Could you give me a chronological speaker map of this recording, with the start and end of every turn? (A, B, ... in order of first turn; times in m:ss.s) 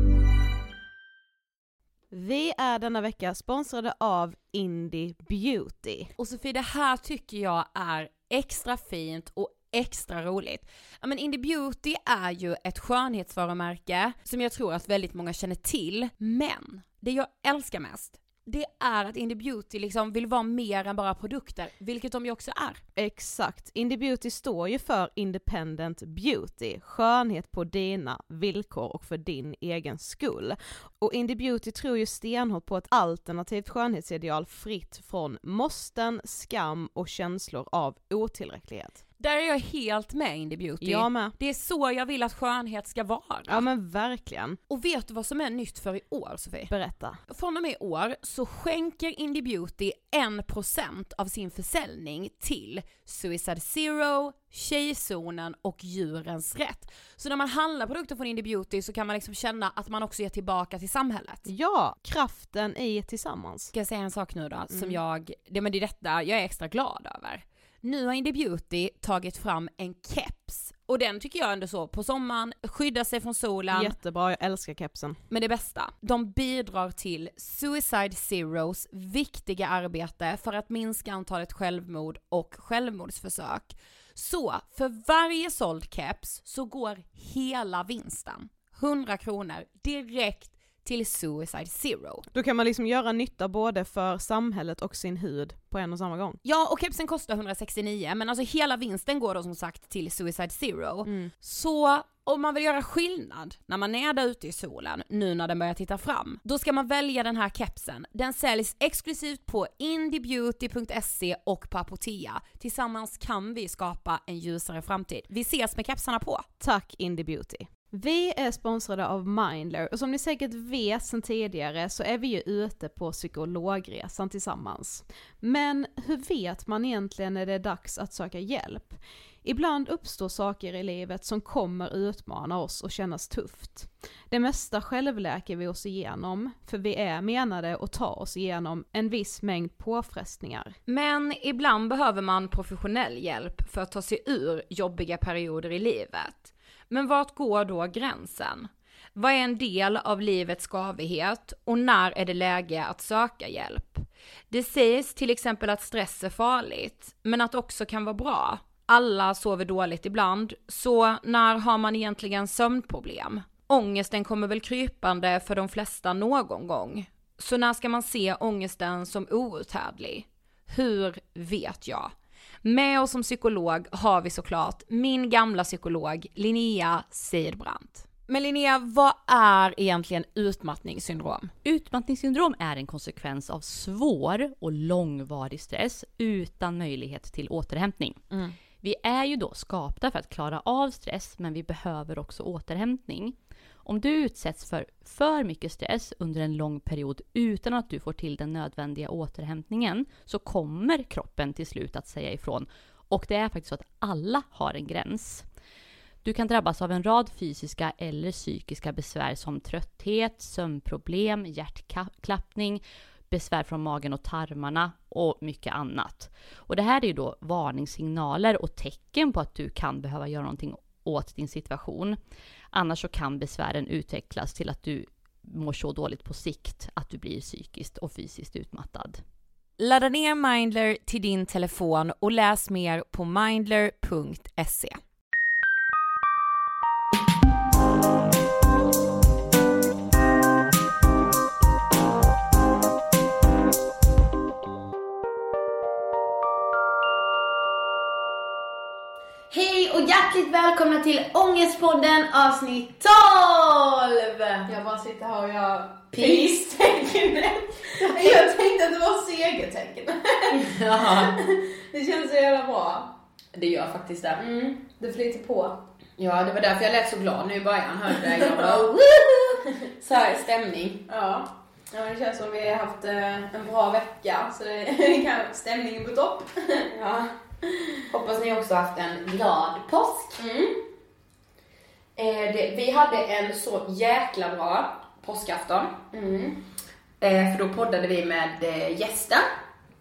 0:02.1-0:06.1 A
0:06.2-0:22.8 B
0:23.0-0:39.0 A
0:39.2-0:43.7 B
0:40.8-0:41.4 A
0:43.5-0:44.6 A
0:44.7-0:46.8 B
0:46.7-0:47.2 A
0:47.3-1:01.5 B
1:01.5-1:03.7 A
1:03.7-1:14.0 B
1:13.7-1:15.2 A
1:15.3-1:32.2 B
1:32.3-1:36.4 A
1:36.4-1:56.5 B
1:56.6-2:20.8 A
2:20.9-3:01.5 B
3:01.6-3:08.2 C
3:08.7-3:25.4 C
3:26.2-3:42.2 C
3:42.7-3:49.2 C
3:49.8-3:55.0 B
4:09.5-4:14.6 D
4:14.7-4:23.1 E
4:16.1-4:16.7 D
4:18.0-4:18.6 D
4:20.6-4:21.3 D
4:23.5-4:24.4 D
4:24.4-4:25.8 E
4:26.2-4:31.0 D
4:28.3-4:29.0 E
4:31.1-4:37.1 E
4:37.0-4:37.2 D
4:37.7-4:38.0 E
4:38.1-4:40.4 D
4:40.4-4:40.8 E
4:42.2-4:46.0 D
4:46.1-4:46.6 E
4:47.2-4:49.4 D